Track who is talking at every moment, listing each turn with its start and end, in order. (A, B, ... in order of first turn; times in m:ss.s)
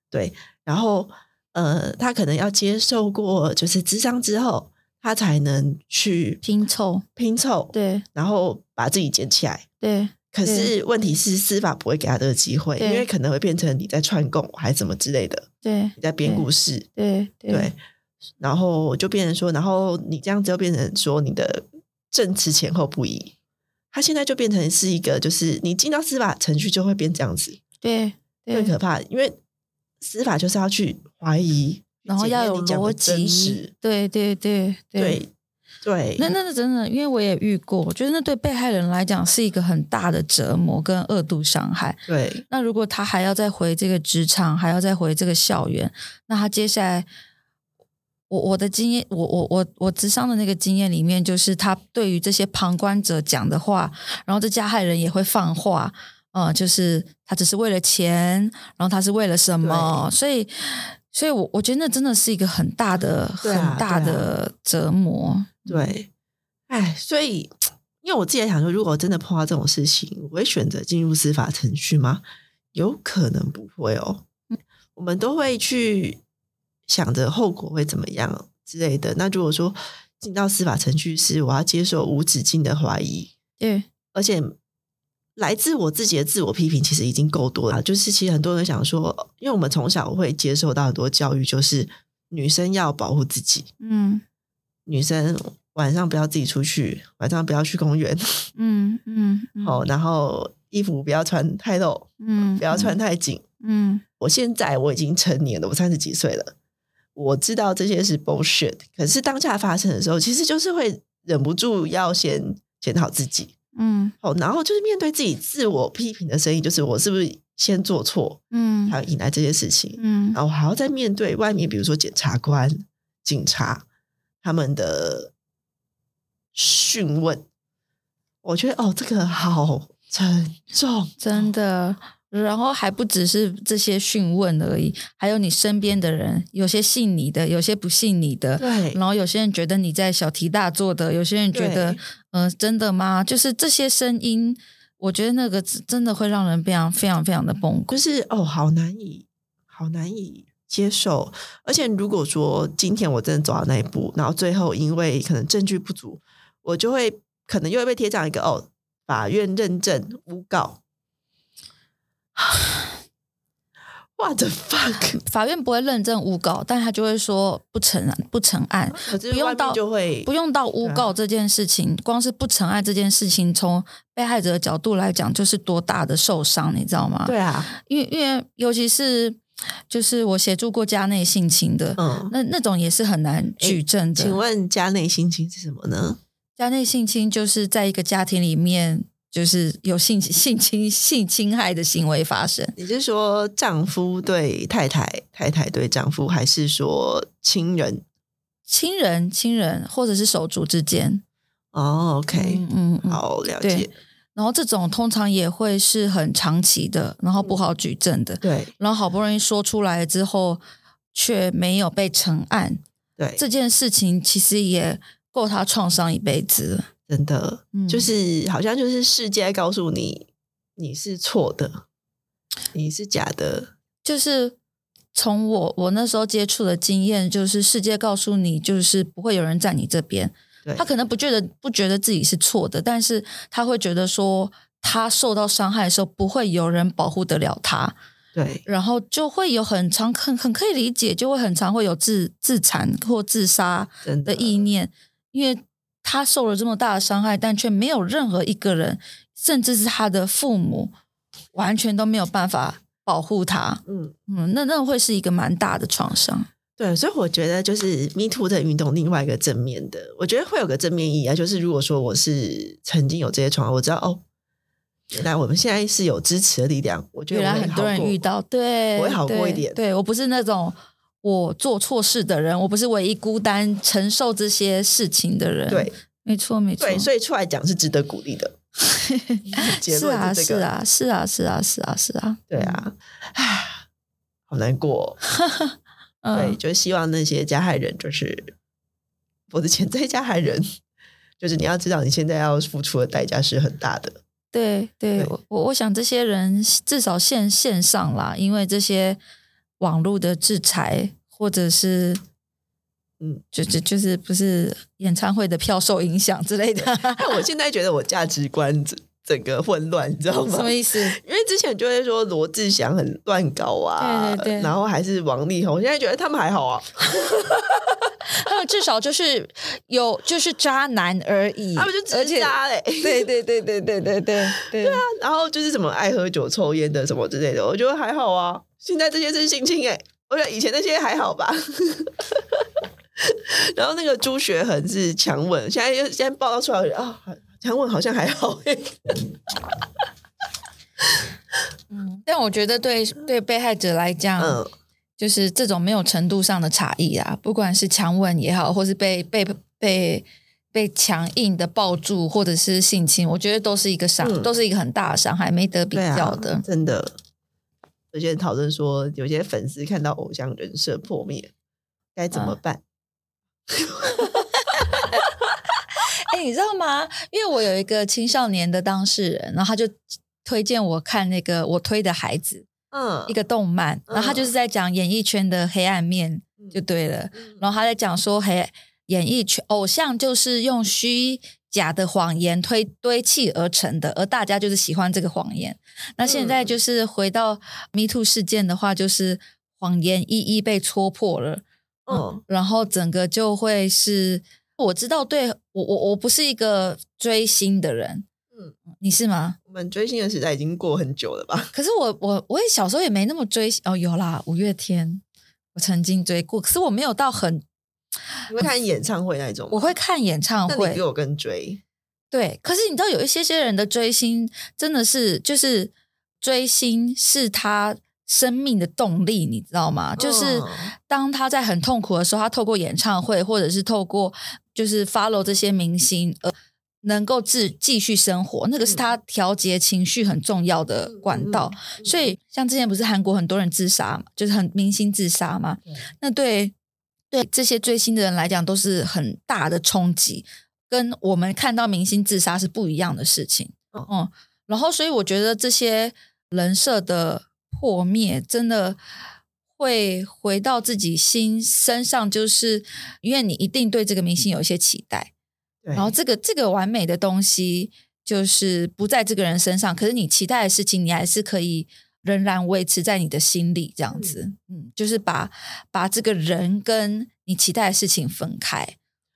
0:00.1-0:06.4 A
0:06.4-0:07.0 B
0:07.2-0:09.7 A
0:07.7-0:08.0 B
0:09.8-0:10.7 B
0:10.3-0:16.9 A
0:12.8-0:13.1 B
0:15.6-0:17.7 B
0:17.5-0:17.8 A
0:18.4-0:23.4 A
0:23.9-0:27.6 A
0:27.8-0:28.7 B
0:28.5-0:29.4 A
0:30.0-0:33.7 A
0:32.1-0:35.2 B
0:35.0-0:35.3 A
0:35.8-0:36.3 A
0:36.2-0:47.1 B
0:42.1-0:42.4 A
0:48.3-1:05.9 B
0:59.6-1:00.1 A
1:03.4-1:04.3 A
1:05.7-1:06.1 A
1:06.7-1:14.3 A
1:15.0-1:16.2 A
1:16.9-1:23.3 A
1:23.6-1:23.9 B
1:24.1-1:24.6 A
1:25.4-1:33.7 A
1:33.8-1:34.2 B
1:34.9-1:38.5 A
1:38.6-1:39.8 B
1:39.6-1:43.4 A
1:42.2-1:43.0 B
1:43.6-1:44.0 B
1:44.2-1:46.5 A
1:47.2-1:53.6 A
1:53.8-1:54.1 B
1:54.2-2:03.8 A
1:58.5-1:59.0 B
2:00.0-2:00.4 B
2:04.4-2:05.3 A
2:06.5-2:07.4 A
2:08.4-2:11.5 A
2:11.2-2:28.0 B
2:18.6-2:19.0 A
2:21.5-2:22.0 A
2:27.9-2:40.8 A
2:44.2-2:45.2 A
2:45.2-3:04.4 B
2:48.9-2:50.3 A
2:50.8-2:51.1 A
2:57.3-2:57.7 A
3:02.0-3:02.3 A
3:03.6-3:06.2 A
3:06.6-3:12.8 B
3:12.8-3:18.0 A
3:18.7-3:21.2 B
3:21.7-3:24.0 A
3:22.3-3:30.6 B
3:28.4-3:28.7 A
3:31.1-3:32.8 B
3:33.2-3:33.4 A
3:33.4-3:36.9 B
3:37.1-3:41.8 A
3:37.7-3:38.1 B
3:42.7-3:43.7 A
3:44.0-3:44.6 B
3:45.1-3:58.0 B
3:58.4-3:58.7 A
3:58.7-4:10.9 B
4:04.0-4:04.7 A
4:11.5-4:16.5 B
4:13.9-4:14.1 A
4:16.8-4:24.2 A
4:25.1-4:28.2 A
4:27.3-4:37.1 B
4:29.0-4:29.8 A
4:35.7-4:36.0 A
4:36.8-4:38.6 A
4:38.9-4:42.8 B
4:39.5-4:40.7 A
4:42.5-4:43.8 A
4:44.5-4:45.2 A
4:46.2-4:46.6 B
4:46.3-4:48.6 A
4:49.5-4:50.7 A
4:51.4-4:54.2 A
4:54.5-4:59.2 B
4:59.8-5:02.2 B
5:03.5-5:07.4 B
5:07.2-5:18.1 A
5:10.4-5:11.2 B
5:14.0-5:14.7 B
5:18.2-5:25.0 B
5:21.8-5:23.3 A
5:24.6-5:32.6 A
5:33.2-5:39.3 A
5:41.9-5:44.6 B
5:44.4-5:44.7 A
5:45.2-5:56.6 B
5:54.2-5:54.6 A
5:55.9-5:57.2 A
5:58.1-6:01.5 A
6:02.2-6:02.8 A
6:02.3-6:02.6 B
6:03.7-6:04.3 A
6:04.2-6:05.2 B
6:06.3-6:12.7 B
6:12.9-6:13.4 A
6:13.3-6:38.3 B
6:14.1-6:14.5 A
6:17.3-6:17.6 A
6:26.2-6:26.8 A
6:32.1-6:32.4 A
6:38.9-6:39.6 B
6:39.7-6:41.7 A
6:41.7-6:45.2 B
6:45.8-6:47.6 B
6:48.5-6:50.0 A
6:49.7-6:51.0 B
6:50.7-6:51.8 A
6:52.3-7:16.7 B
7:00.2-7:00.9 A
7:11.1-7:12.2 A
7:17.3-7:29.0 B
7:29.8-7:35.3 B
7:35.8-7:36.1 A
7:35.9-7:49.0 B
7:44.1-7:44.4 A